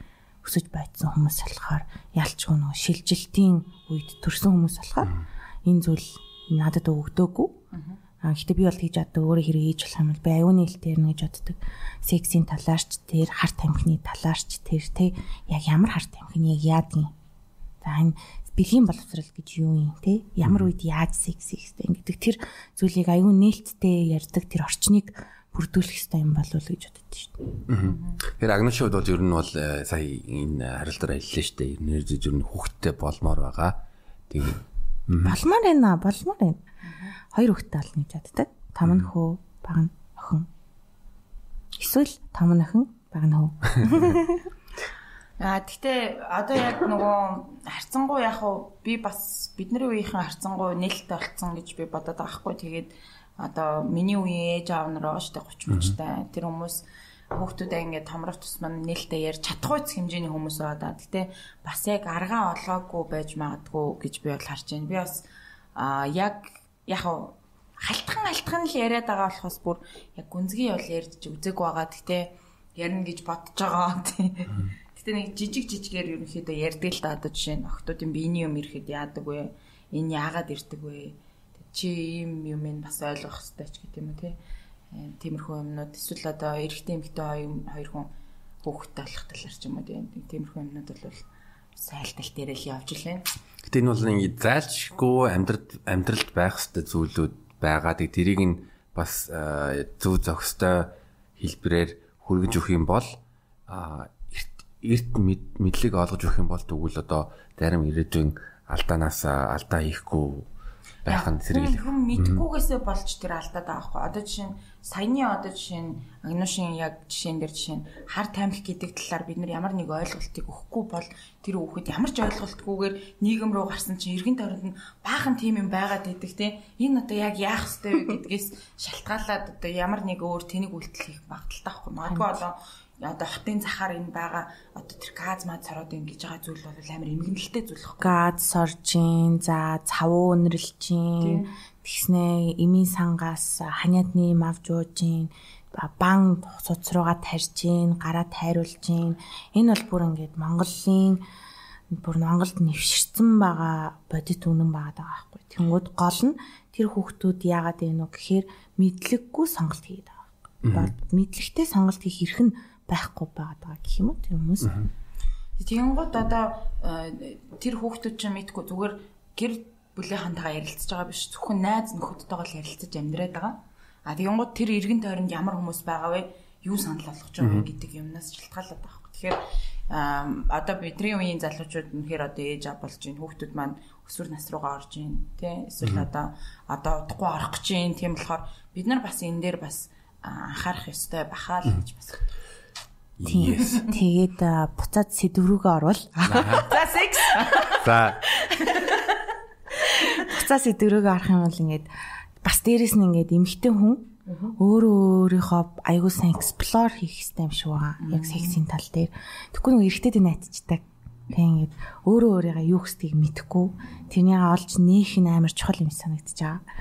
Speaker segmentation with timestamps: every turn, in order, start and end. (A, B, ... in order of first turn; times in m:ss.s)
0:00.4-0:07.6 A
0:08.2-0:17.1 A
0:17.8-0:27.6 A
0:20.4-0:20.7 B
0:27.7-0:35.4 B
0:27.8-0:28.2 C
0:35.2-0:36.6 A
0:37.3-0:40.5 A
0:41.8-0:44.4 A
0:45.4-1:24.4 C
1:24.9-1:28.1 C
1:28.6-1:33.2 C
1:33.6-1:50.5 B
1:51.0-1:52.4 B
1:51.1-2:18.2 C
2:12.1-2:12.4 A
2:18.0-2:31.2 A
2:21.2-2:21.5 C
2:31.9-2:44.8 A
2:40.6-2:40.9 B
2:45.6-3:12.2 C
2:57.4-2:57.7 B
3:13.2-3:13.8 B
3:13.2-3:16.7 A
3:13.6-3:13.9 C
3:16.3-3:16.7 B
3:16.6-3:19.3 C
3:17.8-3:18.2 B
3:19.9-3:21.9 A
3:22.4-3:36.6 A
3:24.3-3:24.6 C
3:28.0-3:28.6 C